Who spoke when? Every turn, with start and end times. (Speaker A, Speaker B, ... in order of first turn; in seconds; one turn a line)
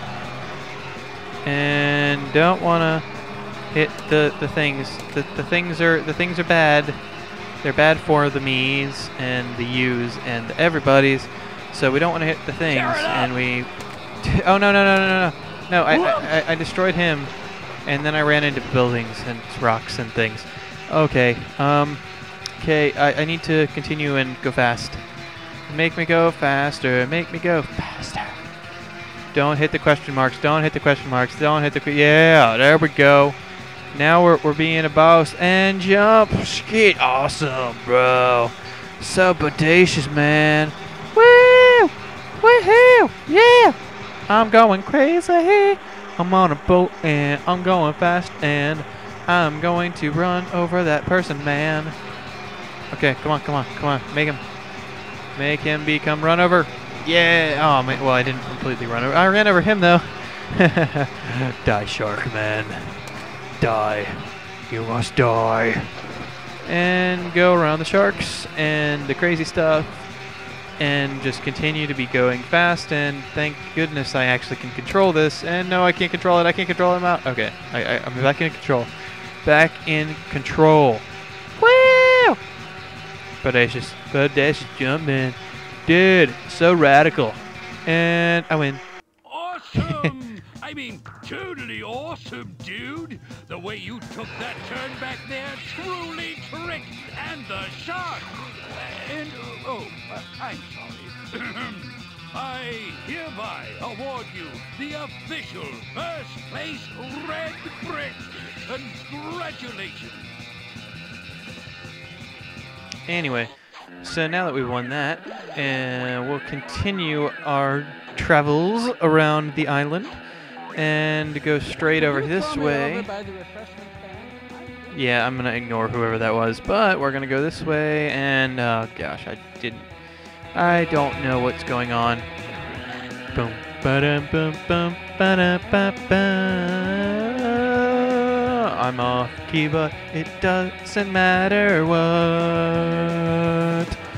Speaker A: 1.4-3.1
Speaker A: 3.7-7.0
Speaker A: 7.6-25.1
Speaker B: 12.7-13.3
Speaker B: 15.9-16.4
Speaker A: 25.7-28.5
Speaker A: 29.3-33.4
Speaker A: 33.9-52.0
Speaker A: 52.9-54.4
Speaker A: 55.4-63.0
Speaker A: 63.6-65.9
Speaker A: 66.6-70.0
Speaker A: 70.8-82.4
Speaker A: 83.4-88.8
Speaker B: 89.2-110.3
Speaker A: 89.8-90.1
Speaker A: 113.1-120.2
Speaker A: 120.7-123.1
Speaker B: 123.1-123.7
Speaker A: 124.9-129.9
Speaker A: 130.5-132.3
Speaker A: 133.3-144.0